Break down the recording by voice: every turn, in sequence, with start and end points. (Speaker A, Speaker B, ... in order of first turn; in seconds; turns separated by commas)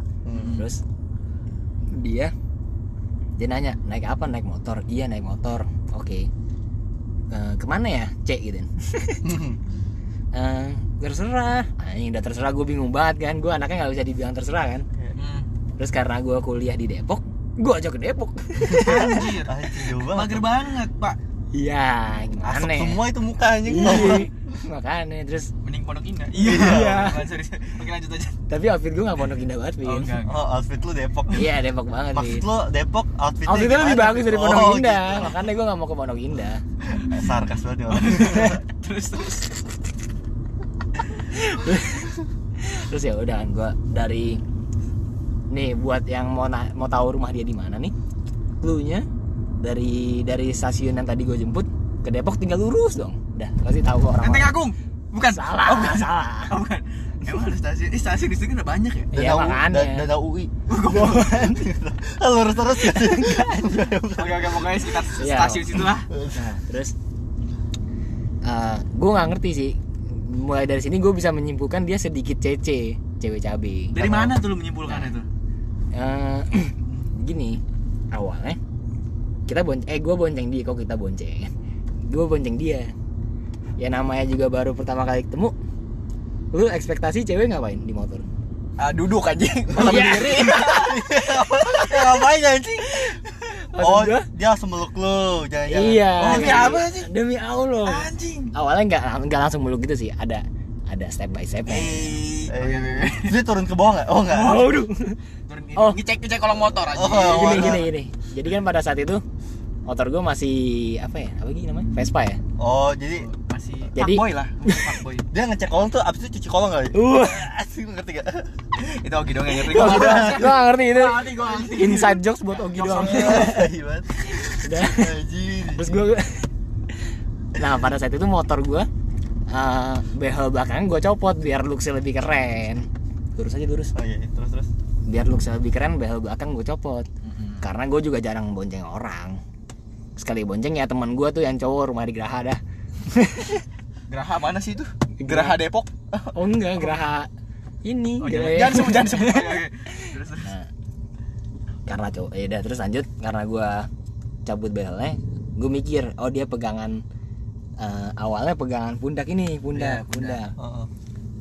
Speaker A: 0.2-0.6, Speaker B: 0.3-0.7, Speaker C: 0.5-0.8, Speaker C: 1.9-2.3, Speaker C: 3.4-6.3, Speaker C: 7.3-9.2, Speaker A: 9.2-9.6, Speaker C: 10.3-14.8, Speaker B: 15.2-15.5, Speaker C: 15.8-19.3, Speaker A: 18.7-20.5, Speaker B: 18.8-21.2, Speaker C: 21.5-23.0, Speaker A: 22.4-24.5, Speaker C: 23.6-25.5, Speaker B: 23.8-24.1, Speaker B: 25.6-28.4, Speaker A: 26.4-27.1, Speaker C: 26.4-27.3, Speaker C: 28.5-30.2, Speaker B: 29.8-30.4, Speaker A: 30.2-31.5, Speaker C: 31.3-32.5, Speaker A: 32.1-35.4, Speaker C: 33.5-36.6, Speaker A: 36.9-38.6, Speaker B: 37.9-39.6, Speaker C: 41.3-44.4, Speaker C: 45.5-47.9, Speaker C: 48.6-49.0, Speaker C: 49.6-54.6, Speaker B: 54.2-59.1, Speaker C: 55.2-56.5, Speaker C: 59.1-60.1, Speaker A: 59.1-64.9, Speaker B: 60.7-61.3, Speaker C: 60.8-61.6, Speaker C: 62.8-63.8, Speaker B: 64.2-66.1, Speaker C: 65.2-66.9, Speaker A: 66.1-66.4, Speaker C: 68.4-74.2, Speaker B: 73.9-75.3, Speaker A: 74.0-74.3, Speaker C: 74.9-75.1, Speaker C: 75.9-78.6, Speaker C: 79.5-81.5, Speaker C: 82.0-82.9, Speaker C: 83.8-85.5, Speaker C: 86.5-88.3, Speaker B: 88.8-91.1, Speaker A: 89.7-93.2, Speaker C: 89.7-90.9, Speaker C: 93.7-94.3, Speaker A: 93.8-96.9, Speaker C: 95.7-102.1, Speaker B: 96.2-97.1, Speaker B: 97.8-98.5, Speaker B: 101.7-103.4, Speaker A: 102.5-104.7, Speaker C: 104.3-105.2, Speaker B: 104.3-104.8, Speaker B: 105.5-107.8, Speaker A: 106.9-107.9, Speaker C: 107.2-109.2, Speaker C: 109.9-112.4, Speaker A: 112.6-113.3, Speaker B: 113.2-115.3, Speaker C: 113.9-114.9, Speaker A: 115.3-118.5, Speaker C: 116.9-117.6, Speaker B: 118.8-123.6, Speaker C: 119.6-123.7, Speaker A: 119.8-120.4, Speaker A: 123.0-125.9, Speaker C: 124.5-125.1, Speaker C: 125.7-126.5, Speaker C: 127.5-128.9, Speaker C: 129.5-133.9, Speaker A: 133.9-134.7, Speaker C: 135.1-137.1, Speaker B: 137.2-137.6, Speaker C: 137.6-139.4, Speaker C: 140.2-143.6, Speaker B: 144.1-146.9, Speaker C: 145.2-145.6, Speaker C: 146.3-147.3, Speaker C: 147.8-150.7, Speaker B: 148.2-150.5, Speaker C: 151.9-153.9, Speaker C: 154.4-157.0, Speaker C: 157.8-160.5, Speaker B: 159.7-160.4, Speaker A: 160.6-160.9